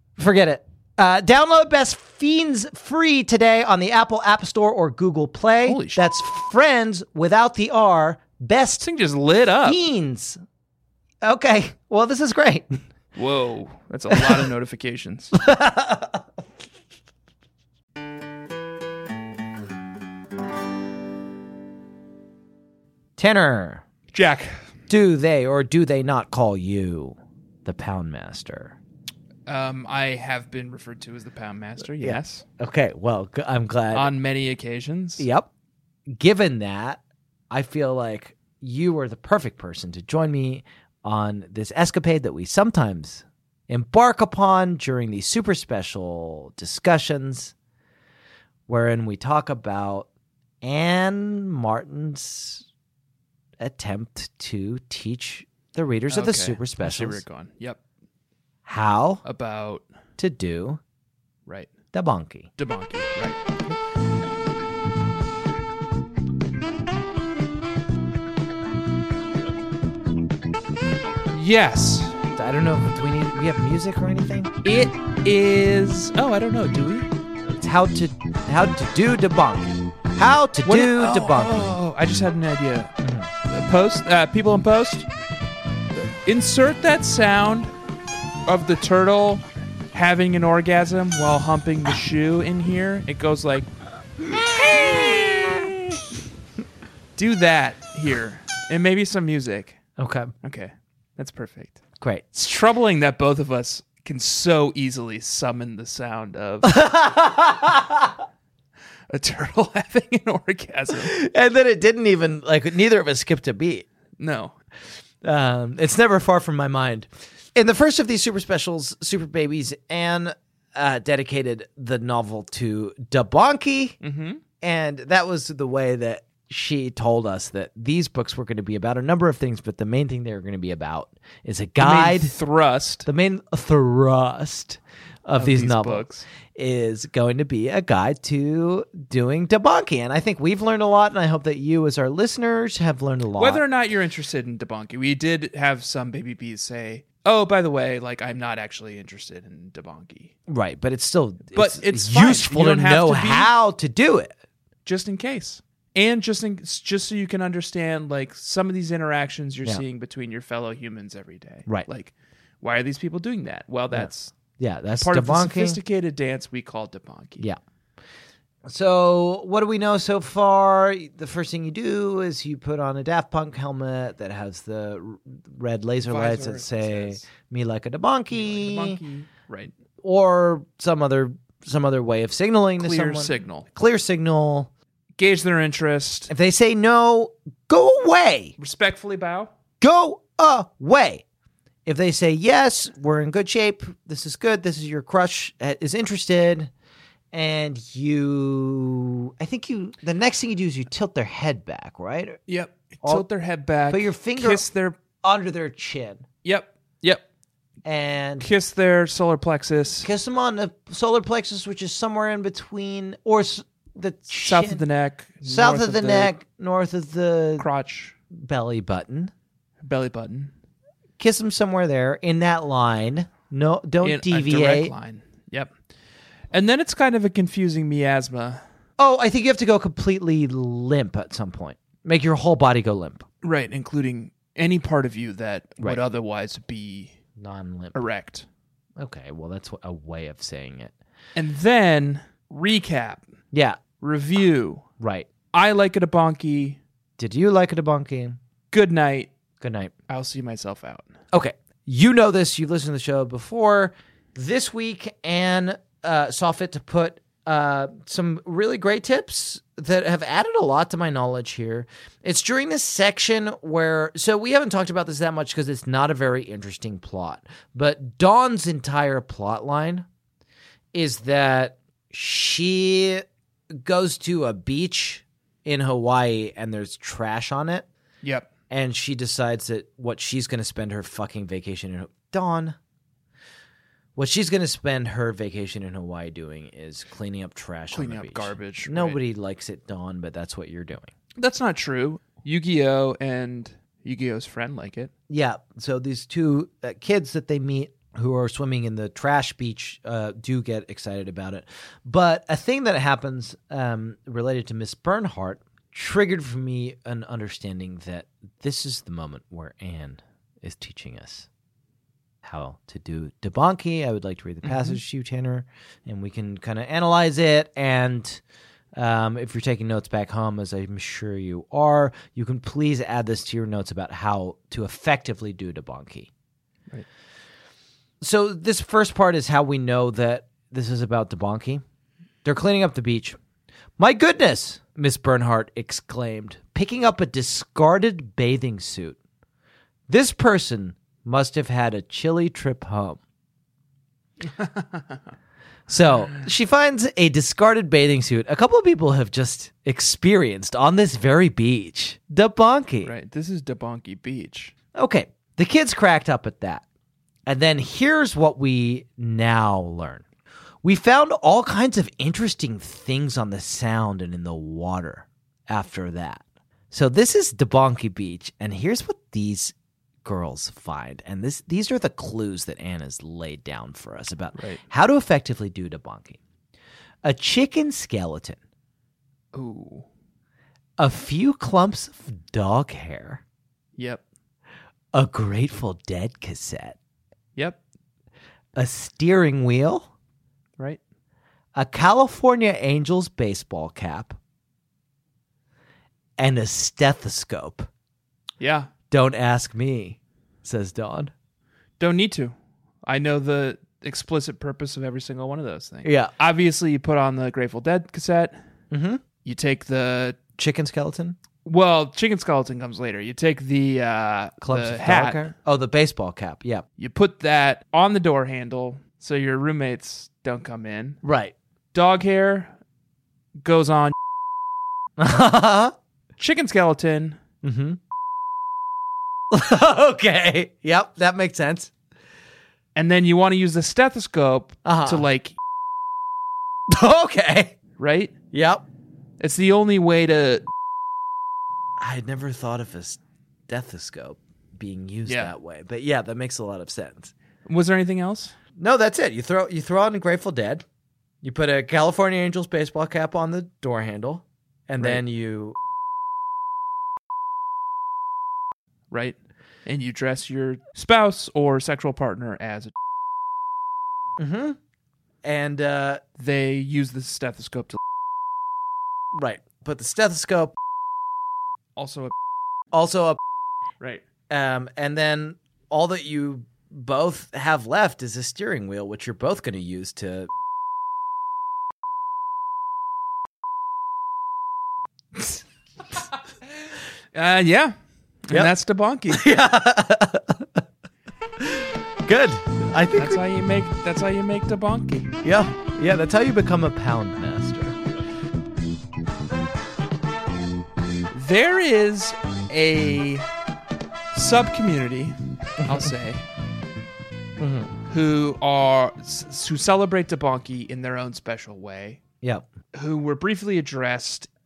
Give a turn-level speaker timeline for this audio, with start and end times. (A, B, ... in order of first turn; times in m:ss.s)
0:00.2-0:08.8 A
0:05.6-0:06.0 B
0:08.8-0:09.8 B
0:09.6-0:10.4 A
0:11.2-0:12.8 A
0:13.2-0:15.4 B
0:14.1-0:14.4 A
0:15.3-0:16.2 A
0:23.2-0:23.8 A
0:24.1-0:24.7 B
0:24.9-0:28.8 A
0:29.5-0:32.4 B
0:32.0-0:34.1 A
0:33.9-0:35.3 B
0:35.2-0:35.5 A
0:36.1-0:47.5 A
0:48.7-0:50.1 A
0:50.6-0:52.6 A
0:53.6-0:57.2 A
0:56.1-0:57.8 B
0:58.6-0:59.2 A
0:59.2-0:59.8 B
1:00.2-1:00.8 A
1:01.4-1:01.7 B
1:01.9-1:02.5 A
1:02.6-1:03.5 B
1:11.3-1:12.2 B
1:12.4-1:14.5 A
1:14.6-1:17.1 B
1:17.5-1:21.6 A
1:20.6-1:22.9 B
1:23.0-1:23.3 A
1:23.4-1:25.1 B
1:26.0-1:27.7 B
1:28.4-1:33.7 B
1:34.5-1:36.0 B
1:34.6-1:35.3 A
1:37.2-1:39.8 B
1:40.0-1:40.3 A
1:40.4-1:41.8 B
1:42.3-1:46.7 B
1:46.6-1:48.2 A
1:49.1-1:51.1 B
1:50.9-1:53.8 A
1:54.2-1:54.6 B
1:55.2-2:04.0 A
2:04.0-2:04.4 B
2:04.6-2:12.3 A
2:11.8-2:13.1 B
2:13.0-2:23.6 A
2:15.4-2:16.2 B
2:23.4-2:30.3 B
2:30.5-2:34.3 A
2:31.5-2:33.5 B
2:34.8-2:44.3 B
2:43.9-2:45.8 A
2:45.0-2:47.5 B
2:48.6-2:59.0 A
2:56.0-2:57.2 B
2:58.3-2:59.7 B
3:00.0-3:04.7 A
3:02.8-3:03.7 B
3:05.2-3:06.3 B
3:06.3-3:08.5 A
3:08.6-3:09.5 B
3:09.8-3:11.2 A
3:11.8-3:16.7 A
3:17.3-3:22.4 A
3:22.5-3:25.0 B
3:23.9-3:24.7 A
3:25.2-3:26.2 A
3:26.4-3:27.2 B
3:27.8-3:28.5 A
3:28.4-3:30.1 B
3:30.0-3:34.8 A
3:34.4-3:36.3 B
3:35.4-3:37.7 A
3:37.6-3:38.2 B
3:38.3-3:39.3 A
3:39.8-3:40.5 B
3:41.2-3:44.9 A
3:44.0-3:45.7 B
3:46.5-3:48.6 B
3:49.0-3:53.2 A
3:53.4-3:57.2 B
3:57.4-3:58.0 A
3:57.9-3:58.5 B
3:59.0-4:00.9 A
4:01.4-4:03.2 B
4:03.5-4:03.8 A
4:04.0-4:04.8 B
4:05.0-4:05.3 A
4:05.5-4:06.8 B
4:07.2-4:08.4 A
4:08.7-4:09.3 B
4:09.6-4:09.9 A
4:10.1-4:11.1 B
4:11.3-4:30.1 A
4:30.9-4:37.9 A
4:38.2-4:38.5 B
4:38.7-4:42.8 A
4:44.2-4:51.1 A
4:47.9-4:49.2 B
4:51.4-4:55.1 B
4:55.3-5:11.5 A
5:12.4-5:18.4 A
5:14.6-5:15.0 B
5:18.9-5:26.3 A
5:28.2-5:31.8 A
5:32.4-5:33.4 A
5:34.0-5:39.2 A
5:40.1-5:43.2 A
5:44.6-5:45.2 B
5:45.9-5:53.1 A
5:53.0-5:54.7 B
5:54.9-5:56.8 A
5:57.5-6:00.2 A
6:00.8-6:16.4 A
6:14.6-6:14.8 B
6:17.2-6:18.6 A
6:19.5-6:20.1 B
6:21.0-6:23.4 A
6:24.0-6:24.2 B
6:25.1-6:27.0 A
6:28.7-6:30.1 A
6:31.7-6:34.4 A
6:36.4-6:37.9 A
6:38.6-6:38.9 B
6:39.1-6:41.3 A
6:42.0-6:48.6 B
6:46.0-6:46.3 A
6:48.9-6:49.2 A
6:49.4-6:50.4 B
6:50.6-6:51.4 A
6:51.6-6:55.5 B
6:54.6-6:56.8 A
6:57.0-7:01.2 B
7:01.2-7:01.5 A
7:01.9-7:02.7 B
7:03.6-7:04.1 B
7:05.2-7:05.9 A
7:06.4-7:07.4 B
7:07.6-7:08.0 A
7:09.5-7:11.9 A
7:12.9-7:15.6 B
7:14.8-7:15.3 A
7:16.9-7:17.8 A
7:18.0-7:18.3 B
7:18.5-7:18.8 A
7:19.4-7:20.6 B
7:22.0-7:27.3 A
7:25.2-7:25.5 B
7:27.6-7:28.5 B
7:28.8-7:30.8 A
7:31.4-7:35.8 A
7:39.1-7:42.9 B
7:44.4-7:44.8 A
7:45.4-7:46.2 A
7:46.4-7:48.0 B
7:49.3-7:50.7 A
7:52.0-7:52.3 B
7:52.9-7:53.4 A
7:54.5-8:00.5 A
8:05.4-8:05.6 A
8:07.3-8:07.9 B
8:08.5-8:09.5 B
8:09.3-8:10.8 A
8:11.6-8:13.4 A
8:13.1-8:15.4 B
8:15.4-8:18.0 A
8:21.3-8:23.4 B
8:24.3-8:26.4 B
8:27.6-8:27.9 A
8:28.1-8:32.2 B
8:32.4-8:32.7 A
8:32.9-8:34.5 B